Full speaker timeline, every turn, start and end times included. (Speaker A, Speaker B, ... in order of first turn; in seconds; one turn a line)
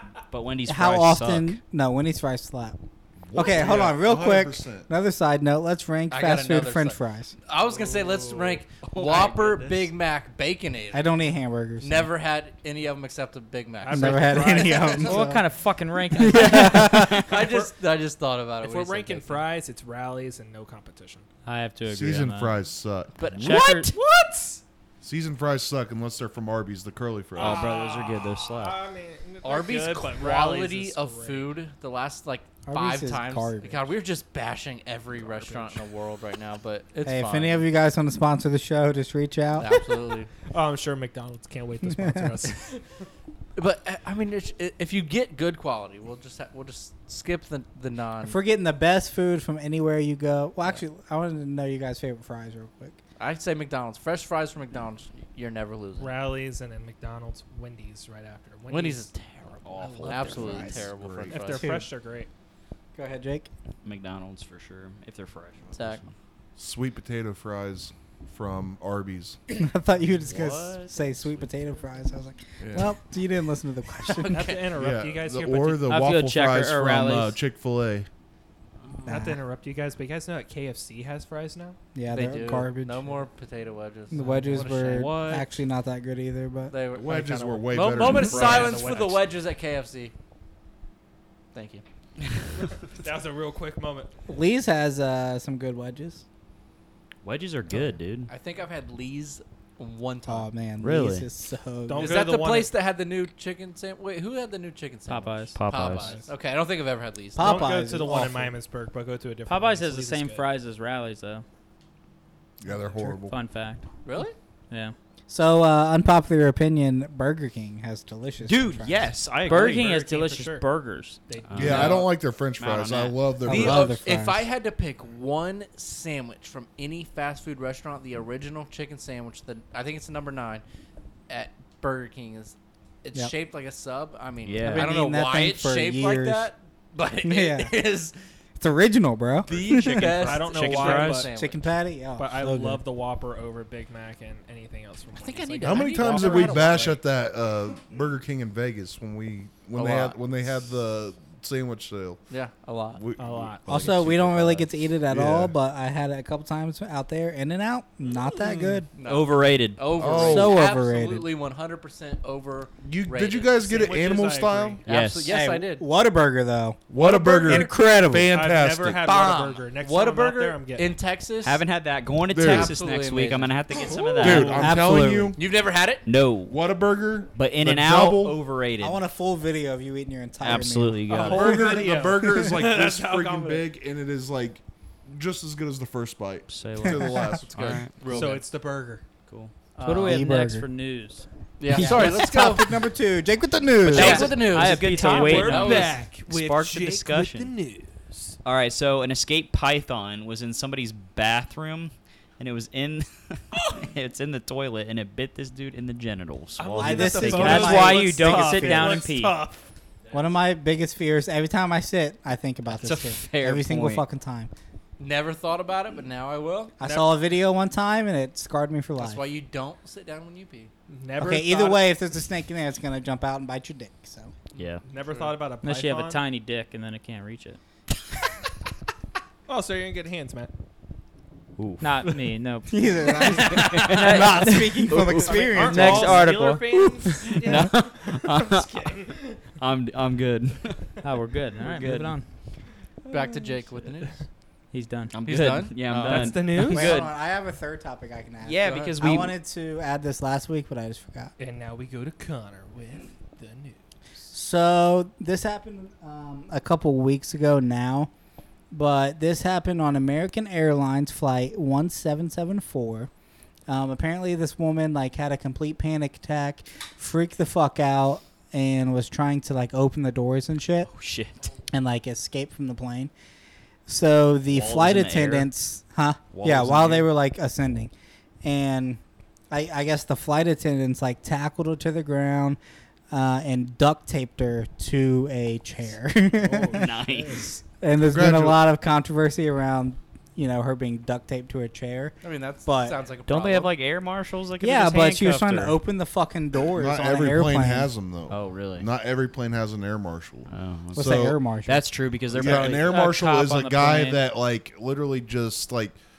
Speaker A: 0.3-1.6
Speaker B: 0.7-2.8
Speaker C: 3.3-4.9
Speaker B: 3.3-7.3
Speaker D: 3.4-3.8
Speaker E: 6.1-11.1
Speaker D: 7.6-8.6
Speaker A: 8.8-9.9
Speaker B: 10.9-12.1
Speaker E: 11.8-14.8
Speaker D: 13.8-15.3
Speaker B: 13.9-15.4
Speaker F: 15.0-16.9
Speaker B: 16.1-17.3
Speaker A: 16.4-17.1
Speaker E: 17.0-19.5
Speaker D: 17.3-17.7
Speaker D: 18.6-21.3
Speaker F: 21.4-22.6
Speaker C: 21.9-23.7
Speaker E: 23.2-23.9
Speaker F: 23.4-23.9
Speaker D: 23.9-24.6
Speaker C: 25.0-27.7
Speaker D: 27.4-31.6
Speaker A: 27.4-28.8
Speaker E: 29.4-37.6
Speaker B: 32.7-33.9
Speaker D: 35.2-35.8
Speaker B: 37.0-39.7
Speaker E: 39.6-40.3
Speaker D: 40.5-42.8
Speaker B: 41.8-42.4
Speaker E: 43.6-48.4
Speaker B: 48.2-53.0
Speaker E: 53.2-56.2
Speaker D: 56.0-60.6
Speaker E: 58.7-61.7
Speaker A: 59.6-60.9
Speaker B: 60.2-60.7
Speaker C: 60.5-61.4
Speaker D: 61.3-62.3
Speaker B: 61.5-61.9
Speaker B: 63.0-63.5
Speaker A: 63.8-66.1
Speaker E: 65.8-66.0
Speaker C: 66.6-69.4
Speaker B: 69.5-74.5
Speaker A: 70.2-71.5
Speaker C: 72.6-72.9
Speaker E: 74.1-74.7
Speaker D: 74.3-75.9
Speaker C: 74.7-78.1
Speaker F: 75.9-77.4
Speaker A: 78.8-79.2
Speaker B: 79.1-79.4
Speaker D: 79.1-81.8
Speaker B: 82.0-83.2
Speaker E: 82.1-85.3
Speaker B: 84.1-86.7
Speaker A: 84.9-85.4
Speaker E: 86.7-90.1
Speaker C: 86.9-88.9
Speaker D: 87.1-89.3
Speaker E: 91.5-91.8
Speaker D: 92.9-94.1
Speaker B: 94.3-96.2
Speaker A: 97.2-98.3
Speaker E: 98.3-100.5
Speaker B: 100.3-102.2
Speaker A: 100.8-101.3
Speaker D: 101.9-102.7
Speaker E: 102.0-107.8
Speaker F: 105.1-105.6
Speaker A: 105.5-106.2
Speaker D: 105.8-106.3
Speaker B: 107.4-108.5
Speaker D: 107.4-110.5
Speaker F: 109.5-111.5
Speaker C: 112.6-113.4
Speaker F: 113.3-113.9
Speaker E: 114.0-114.3
Speaker F: 114.7-115.0
Speaker B: 115.3-119.1
Speaker A: 118.5-119.9
Speaker F: 119.5-121.2
Speaker D: 119.5-120.7
Speaker D: 121.3-122.0
Speaker A: 121.5-123.2
Speaker C: 121.5-124.0
Speaker B: 123.5-124.5
Speaker E: 123.5-130.6
Speaker E: 131.3-138.2
Speaker A: 134.4-134.9
Speaker B: 134.6-136.5
Speaker B: 137.2-137.8
Speaker B: 138.6-140.4
Speaker E: 139.5-141.7
Speaker D: 140.0-141.3
Speaker A: 140.7-141.2
Speaker B: 141.2-142.8
Speaker D: 142.2-147.0
Speaker E: 145.2-147.0
Speaker C: 145.6-152.2
Speaker E: 149.7-150.2
Speaker E: 152.3-153.0
Speaker C: 152.9-155.6
Speaker D: 153.2-153.7
Speaker B: 153.7-158.9
Speaker D: 158.3-158.8
Speaker E: 158.9-163.9
Speaker A: 159.0-159.9
Speaker C: 160.0-160.6
Speaker B: 160.3-161.3
Speaker C: 162.8-164.8
Speaker D: 163.7-164.8
Speaker E: 164.8-165.9
Speaker A: 164.9-165.3
Speaker B: 165.3-166.8
Speaker C: 166.9-169.1
Speaker D: 167.0-171.0
Speaker B: 167.4-168.3
Speaker E: 169.0-171.6
Speaker A: 171.4-175.0
Speaker C: 172.3-172.8
Speaker E: 172.4-173.6
Speaker D: 173.8-174.7
Speaker C: 174.2-175.4
Speaker B: 174.3-175.4
Speaker E: 175.4-176.1
Speaker A: 176.0-176.6
Speaker C: 176.5-178.4
Speaker A: 177.3-179.0
Speaker B: 178.8-181.7
Speaker A: 180.4-181.6
Speaker D: 181.1-183.7
Speaker C: 181.2-187.8
Speaker A: 186.5-188.3
Speaker E: 187.5-188.4
Speaker D: 188.1-189.0
Speaker A: 189.3-189.5
Speaker E: 189.8-190.2
Speaker F: 189.8-191.3
Speaker B: 190.0-190.7
Speaker E: 191.6-192.7
Speaker B: 191.7-194.5
Speaker A: 193.8-197.5
Speaker E: 193.9-196.0
Speaker F: 193.9-196.0
Speaker D: 194.8-198.4
Speaker A: 198.4-207.8
Speaker D: 206.6-209.7
Speaker B: 206.8-209.1
Speaker F: 207.3-209.4
Speaker B: 210.1-214.5
Speaker A: 212.7-214.1
Speaker E: 215.0-216.8
Speaker B: 216.8-219.2
Speaker D: 216.8-217.1
Speaker E: 219.0-220.7
Speaker D: 220.9-221.8
Speaker B: 221.2-224.3
Speaker A: 224.6-224.8
Speaker E: 224.6-225.3
Speaker D: 224.8-226.2
Speaker F: 225.6-227.6
Speaker D: 229.5-230.5
Speaker A: 231.6-232.2
Speaker F: 231.8-235.0
Speaker B: 232.7-236.3
Speaker A: 233.5-234.3
Speaker A: 234.9-235.4
Speaker D: 235.2-239.4
Speaker F: 235.6-237.1
Speaker A: 237.3-238.9
Speaker A: 239.6-241.0
Speaker F: 241.0-242.3
Speaker A: 241.6-242.2
Speaker E: 243.1-244.2
Speaker F: 244.7-245.2
Speaker A: 245.1-247.1
Speaker E: 245.2-246.4
Speaker D: 246.0-247.0
Speaker B: 246.6-251.3
Speaker A: 248.4-249.3
Speaker E: 248.7-248.9
Speaker D: 251.4-253.8
Speaker B: 254.3-258.1
Speaker B: 258.7-263.1
Speaker B: 263.7-270.9
Speaker A: 270.9-271.4
Speaker B: 271.7-273.1
Speaker B: 273.9-277.9
Speaker A: 274.5-275.5
Speaker A: 276.3-277.1
Speaker B: 278.4-279.0
Speaker B: 279.5-282.6
Speaker B: 283.1-286.9
Speaker D: 286.4-287.5
Speaker A: 286.7-287.6
Speaker B: 287.8-293.0
Speaker C: 288.0-288.6
Speaker E: 292.2-293.7
Speaker A: 293.3-295.8
Speaker B: 294.6-297.9
Speaker C: 296.8-301.4
Speaker A: 298.3-298.9
Speaker A: 300.5-303.0
Speaker B: 300.9-301.9
Speaker C: 302.3-306.0
Speaker F: 302.8-304.2